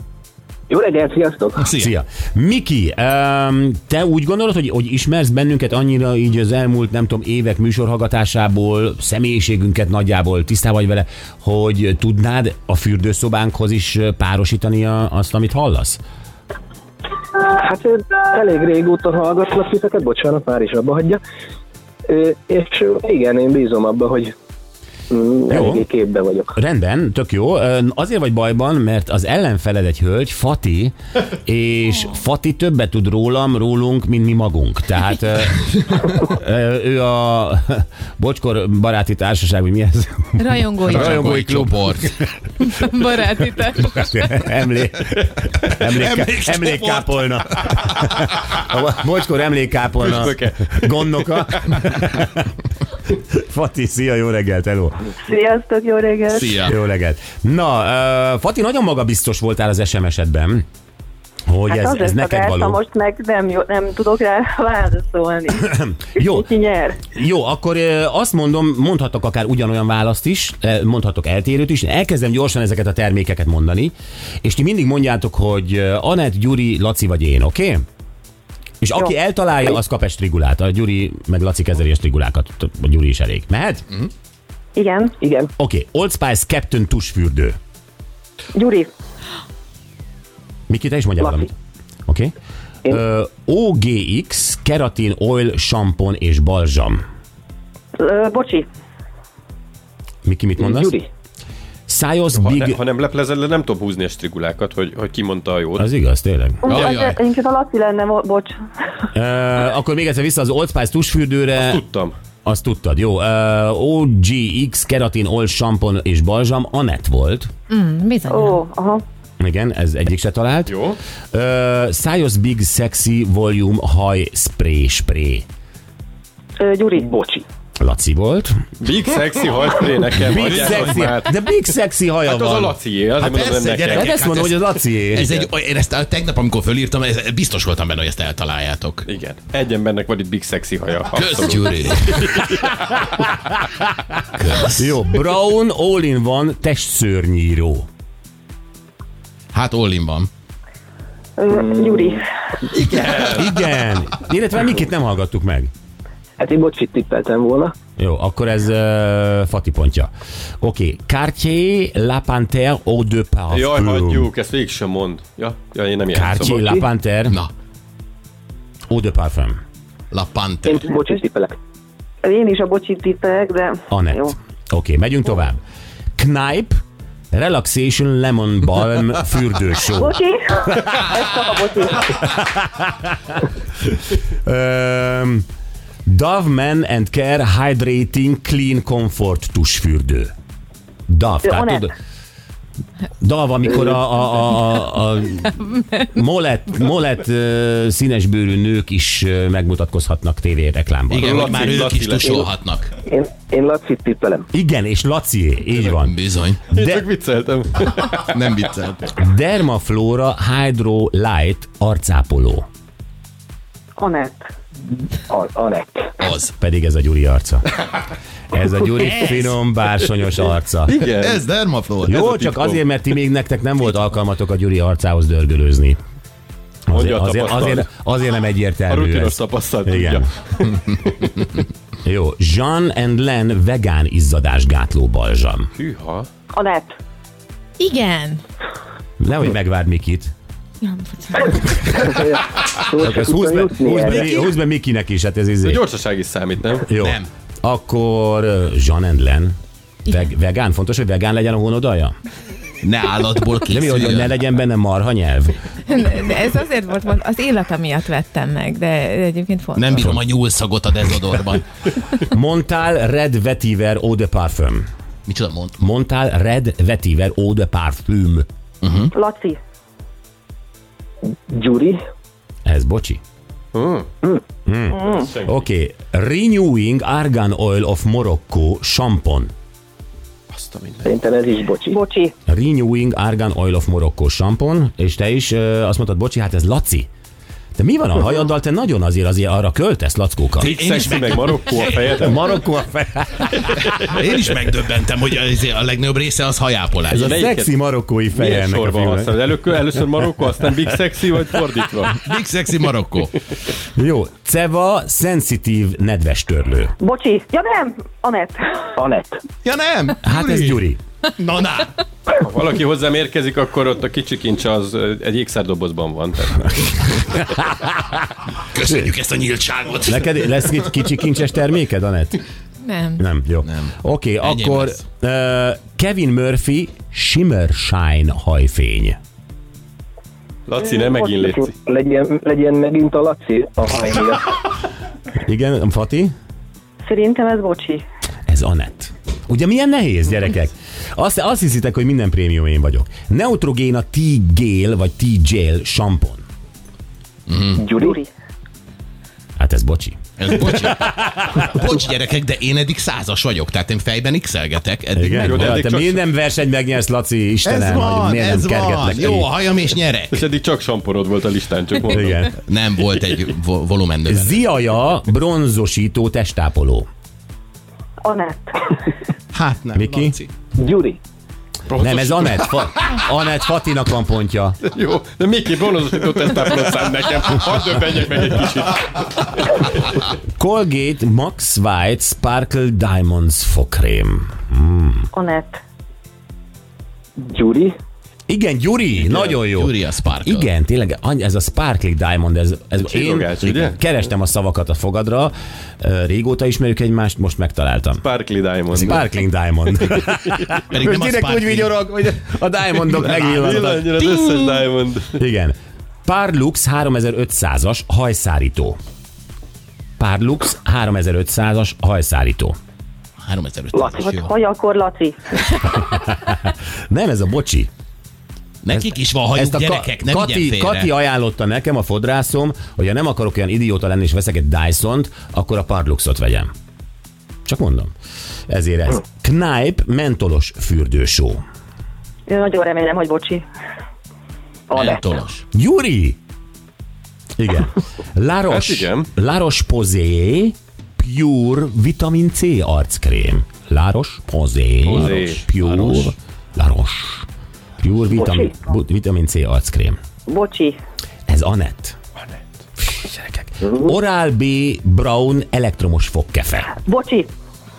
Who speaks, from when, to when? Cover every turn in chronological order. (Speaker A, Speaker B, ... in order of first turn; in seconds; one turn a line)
Speaker A: 0.7-1.7
Speaker B: 1.6-1.9
Speaker C: 1.8-16.0
Speaker A: 17.4-21.2
Speaker A: 22.1-24.3
Speaker A: 25.1-26.6
Speaker C: 25.5-25.8
Speaker C: 26.6-42.1
Speaker D: 40.4-41.3
Speaker B: 40.9-42.1
Speaker D: 42.7-44.3
Speaker C: 43.9-52.5
Speaker B: 45.8-47.2
Speaker E: 50.0-51.7
Speaker C: 53.1-55.0
Speaker F: 55.2-56.6
Speaker B: 56.3-56.7
Speaker C: 56.6-60.6
Speaker C: 61.5-62.8
Speaker F: 61.7-67.1
Speaker C: 65.7-66.5
Speaker C: 67.1-77.8
Speaker C: 78.8-83.8
Speaker F: 84.8-85.2
Speaker A: 85.2-85.5
Speaker C: 85.6-87.5
Speaker F: 88.5-88.9
Speaker C: 90.7-91.5
Speaker A: 91.2-91.5
Speaker C: 92.1-92.3
Speaker C: 92.8-97.0
Speaker F: 98.0-98.7
Speaker C: 100.2-100.9
Speaker A: 100.6-101.1
Speaker C: 101.9-102.8
Speaker E: 102.3-105.9
Speaker C: 105.8-106.7
Speaker F: 106.6-108.5
Speaker B: 106.7-107.2
Speaker C: 109.1-111.8
Speaker E: 111.6-112.1
Speaker C: 112.4-117.5
Speaker D: 117.7-118.6
Speaker F: 118.3-119.0
Speaker C: 119.4-120.7
Speaker E: 120.7-121.0
Speaker C: 121.3-125.4
Speaker F: 126.6-127.1
Speaker A: 127.0-127.4
Speaker C: 127.8-128.5
Speaker E: 128.8-131.3
Speaker C: 130.2-132.7
Speaker E: 132.2-134.3
Speaker B: 133.2-139.1
Speaker C: 133.9-135.3
Speaker E: 139.1-143.3
Speaker B: 141.1-142.5
Speaker C: 142.8-143.7
Speaker B: 144.4-144.9
Speaker C: 144.6-147.9
Speaker B: 149.5-150.3
Speaker F: 151.4-152.2
Speaker A: 151.5-152.2
Speaker E: 152.7-153.5
Speaker C: 153.3-155.7
Speaker A: 156.4-157.7
Speaker C: 158.0-160.1
Speaker C: 160.6-164.3
Speaker E: 163.5-166.6
Speaker C: 166.1-167.4
Speaker A: 166.4-166.8
Speaker C: 168.9-169.6
Speaker B: 170.1-170.9
Speaker A: 170.6-171.6
Speaker F: 172.2-174.3
Speaker C: 173.9-175.6
Speaker C: 176.2-176.8
Speaker C: 177.3-180.2
Speaker F: 179.9-182.1
Speaker C: 182.1-185.4
Speaker C: 186.1-190.3
Speaker C: 191.1-191.9
Speaker F: 191.4-191.9
Speaker C: 193.2-201.5
Speaker B: 201.1-202.9
Speaker E: 201.2-202.5
Speaker A: 203.0-204.5
Speaker C: 204.5-206.2
Speaker B: 205.9-206.7
Speaker C: 206.7-207.0
Speaker E: 206.7-208.4
Speaker B: 208.2-209.1
Speaker C: 209.1-212.6
Speaker F: 214.0-214.4
Speaker A: 215.3-216.1
Speaker B: 216.2-216.5
Speaker C: 216.6-217.7
Speaker C: 218.5-220.9
Speaker B: 219.0-219.6
Speaker E: 220.8-221.4
Speaker B: 221.0-222.7
Speaker C: 222.0-226.0
Speaker C: 226.9-230.2
Speaker E: 226.9-227.9
Speaker E: 228.9-231.2
Speaker C: 232.0-235.7
Speaker E: 235.8-236.3
Speaker F: 236.5-236.9
Speaker D: 237.8-238.4
Speaker C: 239.2-240.3
Speaker D: 240.8-242.2
Speaker A: 241.9-244.4
Speaker C: 243.0-245.8
Speaker E: 245.6-246.9
Speaker C: 246.9-249.5
Speaker B: 246.9-247.3
Speaker C: 250.1-252.1
Speaker B: 252.8-254.4
Speaker C: 253.7-255.6
Speaker D: 255.9-260.1
Speaker B: 259.8-261.6
Speaker C: 262.2-264.9
Speaker B: 265.3-265.8
Speaker C: 265.8-268.4
Speaker B: 268.8-269.1
Speaker F: 269.1-269.6
Speaker A: 271.5-272.0
Speaker C: 272.6-273.2
Speaker E: 273.7-274.1
Speaker C: 274.6-279.5
Speaker F: 274.9-275.3
Speaker E: 275.1-275.6
Speaker E: 280.5-281.2
Speaker A: 281.0-282.0
Speaker F: 281.8-282.3
Speaker C: 282.5-287.1
Speaker C: 287.8-290.7
Speaker B: 290.6-292.3
Speaker E: 290.6-292.4
Speaker C: 292.2-294.1
Speaker B: 293.9-297.4
Speaker E: 297.1-297.7
Speaker C: 297.1-299.4
Speaker E: 298.3-302.2
Speaker B: 302.2-303.4
Speaker C: 303.9-306.9
Speaker F: 307.0-309.0
Speaker A: 309.0-309.4
Speaker B: 309.6-310.8
Speaker C: 310.2-311.0
Speaker B: 311.4-312.0
Speaker E: 312.4-317.1
Speaker B: 318.7-320.9
Speaker C: 320.1-322.4
Speaker D: 322.8-323.2
Speaker C: 323.2-329.2
Speaker B: 323.6-325.0
Speaker E: 330.7-331.7
Speaker F: 330.8-331.6
Speaker A: 331.5-334.5
Speaker C: 335.4-336.3
Speaker F: 337.0-338.0
Speaker C: 338.5-346.4
Speaker B: 347.5-347.9
Speaker A: 347.8-348.2
Speaker F: 348.0-348.3
Speaker C: 349.6-351.3
Speaker B: 350.4-355.7
Speaker C: 355.1-359.5
Speaker E: 355.4-356.2
Speaker B: 357.6-360.4
Speaker E: 360.3-362.4
Speaker C: 362.1-362.5
Speaker B: 362.6-364.6
Speaker C: 364.2-367.1
Speaker F: 368.2-369.0
Speaker B: 369.5-370.5
Speaker C: 369.9-370.4
Speaker A: 370.8-371.2
Speaker E: 371.9-372.9
Speaker C: 371.9-374.8
Speaker E: 374.8-379.7
Speaker C: 380.6-385.3
Speaker F: 385.3-385.8
Speaker A: 387.4-387.9
Speaker C: 388.5-398.2
Speaker B: 389.1-390.7
Speaker E: 393.0-394.0
Speaker E: 398.2-399.2
Speaker C: 398.9-404.2
Speaker B: 400.9-402.0
Speaker E: 403.1-405.4
Speaker C: 405.4-405.7
Speaker C: 406.2-409.0
Speaker C: 410.2-412.7
Speaker B: 413.4-414.5
Speaker A: 413.9-414.3
Speaker F: 414.2-415.6
Speaker C: 416.0-417.9
Speaker B: 418.8-421.1
Speaker C: 418.9-426.7
Speaker C: 427.6-428.1
Speaker C: 428.7-431.6
Speaker F: 432.5-433.6
Speaker A: 434.9-435.2
Speaker B: 434.9-435.6
Speaker C: 435.7-436.4
Speaker C: 437.6-447.5
Speaker E: 438.7-439.3
Speaker E: 445.0-445.7
Speaker C: 448.0-450.2
Speaker F: 448.4-448.7
Speaker F: 450.5-451.0
Speaker C: 451.5-452.1
Speaker A: 453.8-454.1
Speaker C: 453.9-456.9
Speaker F: 457.1-457.5